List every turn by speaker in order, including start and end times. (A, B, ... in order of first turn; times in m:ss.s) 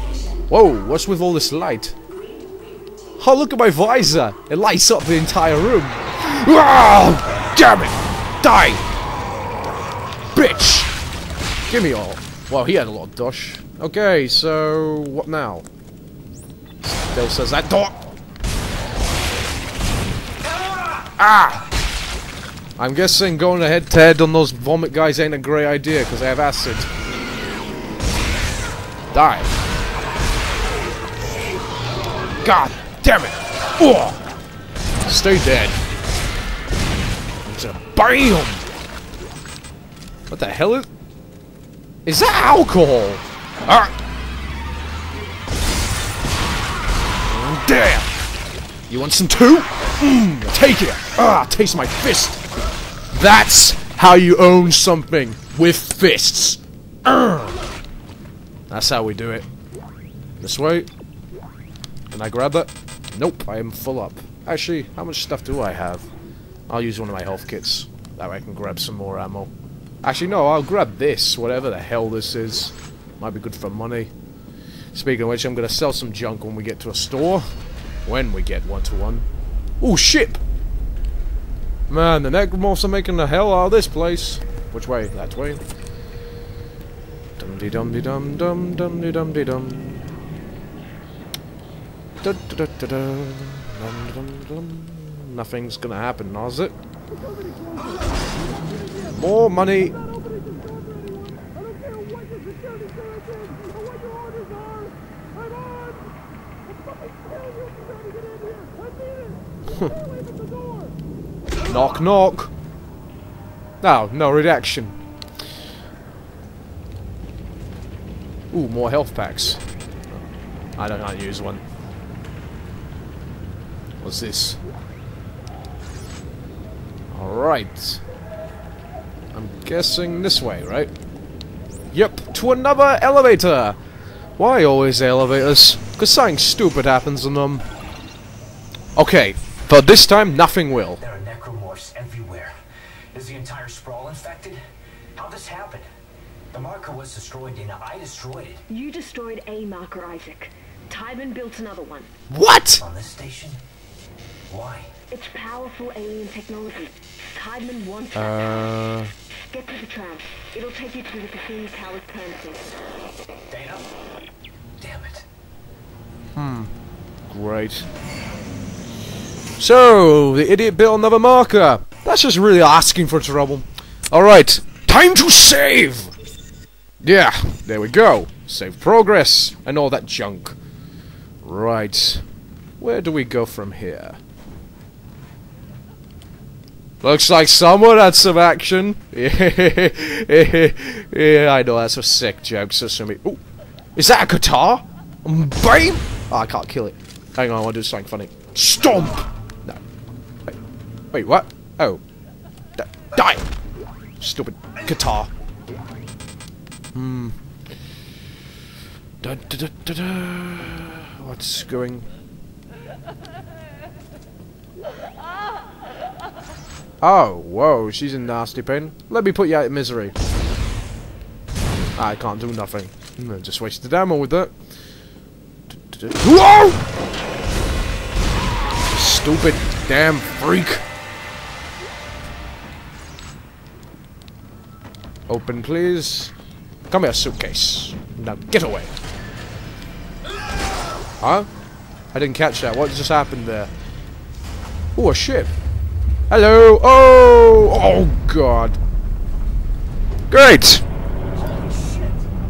0:00.5-0:02.0 A
0:03.2-0:08.8 A
0:10.3-0:10.9 A
0:11.7-0:15.7 A
0:16.8-0:18.0 A
0:21.2-0:21.7 A
0:22.8-0:26.9 A
0:29.1-0:29.5 A
0:32.4-0:34.2 A
0:35.1-0:35.8 A
0:37.4-0:38.6 A
0:40.3-0:40.9 A
0:42.0-0:43.9 A
0:47.3-0:48.1 A
0:48.9-0:52.4 A
0:53.1-0:57.6 A
0:58.7-0:59.5 A
1:00.4-1:00.9 A
1:02.1-1:06.1 A
1:06.7-1:09.5 A
1:10.0-1:14.1 A
1:14.9-1:17.5 A
1:18.0-1:19.3 A
1:19.8-1:20.4 A
1:21.9-1:25.6 A
1:27.4-1:30.1 A
1:32.2-1:36.8 A
1:39.1-1:40.0 A
1:51.7-1:52.5 A
1:53.8-1:55.0 A
1:58.5-1:59.6 A
2:00.8-2:01.6 A
2:04.0-2:04.6 A
2:07.1-2:08.0 A
2:09.3-2:10.9 A
2:11.9-2:13.8 A
2:14.4-2:17.6 A
2:19.0-2:21.0 A
2:21.0-2:22.6 B
2:23.1-2:25.9 B
2:26.5-2:28.7 B
2:28.7-2:32.1 C
2:32.3-2:32.9 A
2:32.8-2:33.6 B
2:34.5-2:35.1 B
2:35.1-2:38.5 C
2:38.2-2:39.1 A
2:39.5-2:42.8 C
2:43.5-2:43.9 B
2:44.8-2:45.3 B
2:46.4-2:46.7 A
2:47.3-2:47.9 A
2:49.6-2:56.1 A
2:57.0-3:00.6 A
3:01.4-3:02.2 A
3:02.8-3:04.2 A
3:07.0-3:13.4 A
3:14.0-3:19.8 A
3:21.1-3:22.0 A
3:22.8-3:23.4 A
3:24.2-3:25.3 A
3:26.9-3:27.4 A
3:29.2-3:32.1 A
3:37.0-3:40.1 A
3:42.0-3:44.5 A
3:45.7-3:46.8 A
3:48.9-3:50.8 A
3:55.3-3:56.3 A
3:56.9-3:58.9 A
4:01.2-4:01.5 A
4:02.1-4:03.7 A
4:05.0-4:05.5 A
4:06.3-4:08.8 A
4:10.3-4:10.8 A
4:11.7-4:12.0 B